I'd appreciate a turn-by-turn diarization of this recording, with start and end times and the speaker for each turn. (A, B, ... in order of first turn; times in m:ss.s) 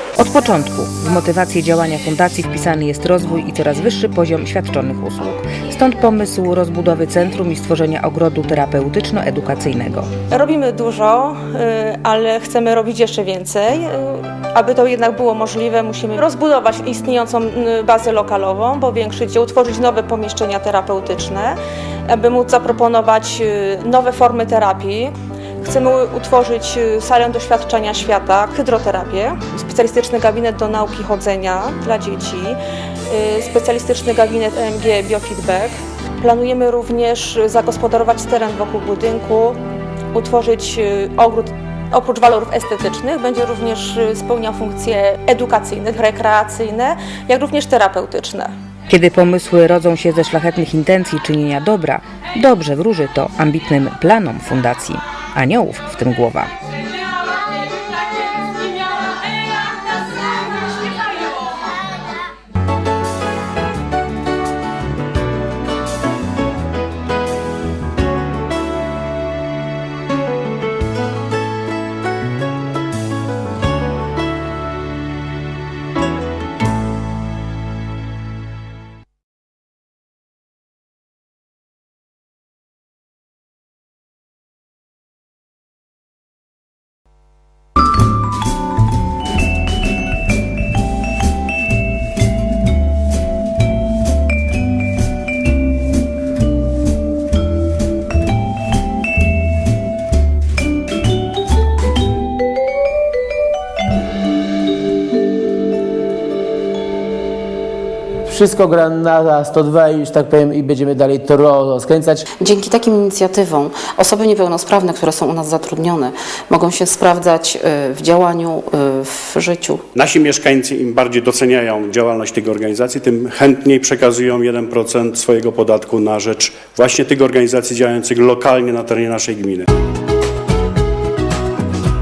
0:00.2-0:10.1 A
0:10.3-0:32.6 B
0:33.1-0:39.6 B
0:40.1-0:48.5 B
0:48.9-0:56.5 A
1:48.3-1:52.2 C
1:52.4-1:59.8 D
2:00.0-2:09.6 E